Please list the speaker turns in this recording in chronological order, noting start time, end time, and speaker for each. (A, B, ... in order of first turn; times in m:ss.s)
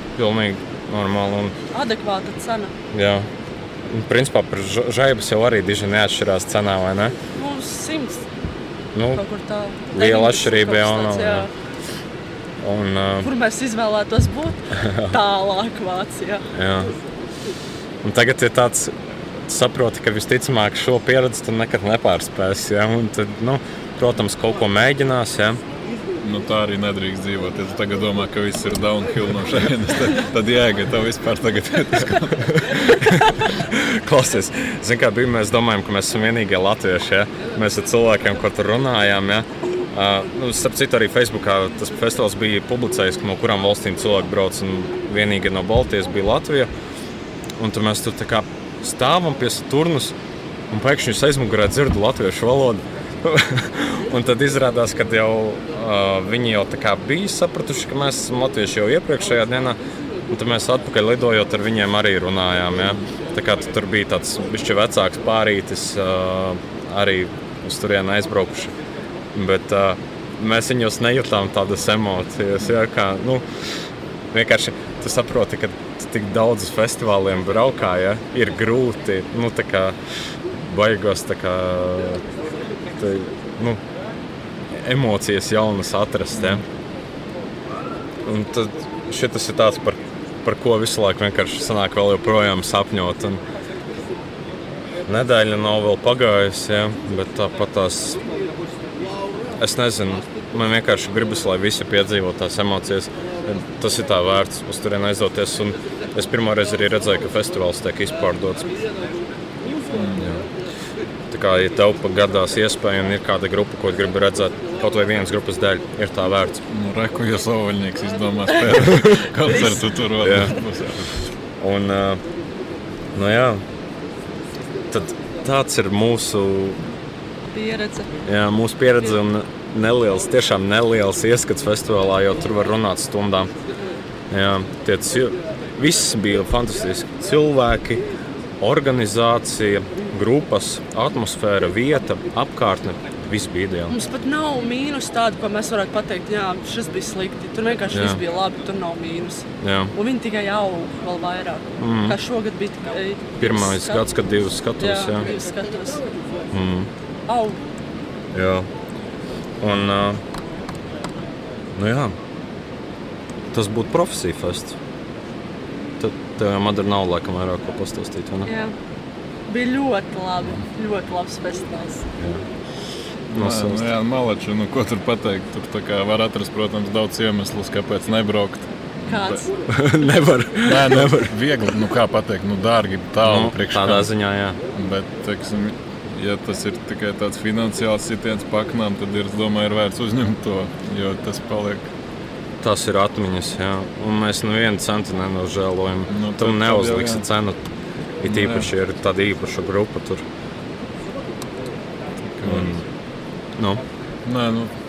0:00.2-0:01.6 A
0:01.7-0:02.7 B
0:02.9-0:03.3 A
0:03.9-0:07.2 A
0:07.3-0:08.3 B
0:08.9-0:09.2 A
0:09.1-0:11.5 B
0:09.9-0:11.5 A
0:12.6-0:13.3 A
0:13.2-0:16.5 B
0:14.8-0:15.1 A
0:16.5-0:16.9 A
0:18.0-0:25.6 A
0:26.2-0:33.0 C
0:32.4-0:46.7 A
0:47.6-0:50.2 A
0:50.7-1:08.8 A
1:09.3-1:20.0 A
1:20.5-1:22.2 A
1:22.9-1:23.8 A
1:24.7-1:26.6 A
1:26.4-1:26.6 C
1:28.2-1:33.4 A
1:35.1-1:38.2 A
1:39.6-1:48.7 A
1:49.9-1:50.3 C
1:50.2-1:50.5 A
1:51.3-1:56.6 A
1:56.7-2:01.2 C
1:59.5-1:59.8 B
2:00.2-2:00.6 A
2:01.6-2:02.2 A
2:03.2-2:03.6 A
2:04.9-2:06.9 A
2:07.5-2:08.2 B
2:08.2-2:13.5 A
2:14.3-2:18.1 A
2:18.6-2:23.9 A
2:23.9-2:34.1 B
2:27.9-2:28.2 A
2:29.6-2:29.9 A
2:31.8-2:32.2 A
2:33.4-2:35.3 A
2:34.8-2:36.1 B
2:36.5-2:36.9 A
2:37.3-2:37.6 B
2:38.3-2:38.7 A
2:39.6-2:40.2 A
2:41.8-2:42.2 A
2:43.5-2:44.8 A
2:46.0-2:48.5 A
2:48.5-2:48.7 B
2:49.5-2:52.1 B
2:52.2-2:52.4 A
2:53.3-2:59.4 C
2:53.4-2:53.8 A
2:59.1-2:59.5 B
2:59.7-3:01.3 A
3:00.6-3:04.1 C
3:03.2-3:04.6 A
3:04.7-3:11.9 C
3:12.6-3:17.6 A
3:16.1-3:17.3 C
3:18.2-3:20.2 A
3:18.2-3:18.7 C
3:22.4-3:22.7 C
3:22.4-3:22.9 A
3:23.6-3:23.8 A
3:24.2-3:24.7 C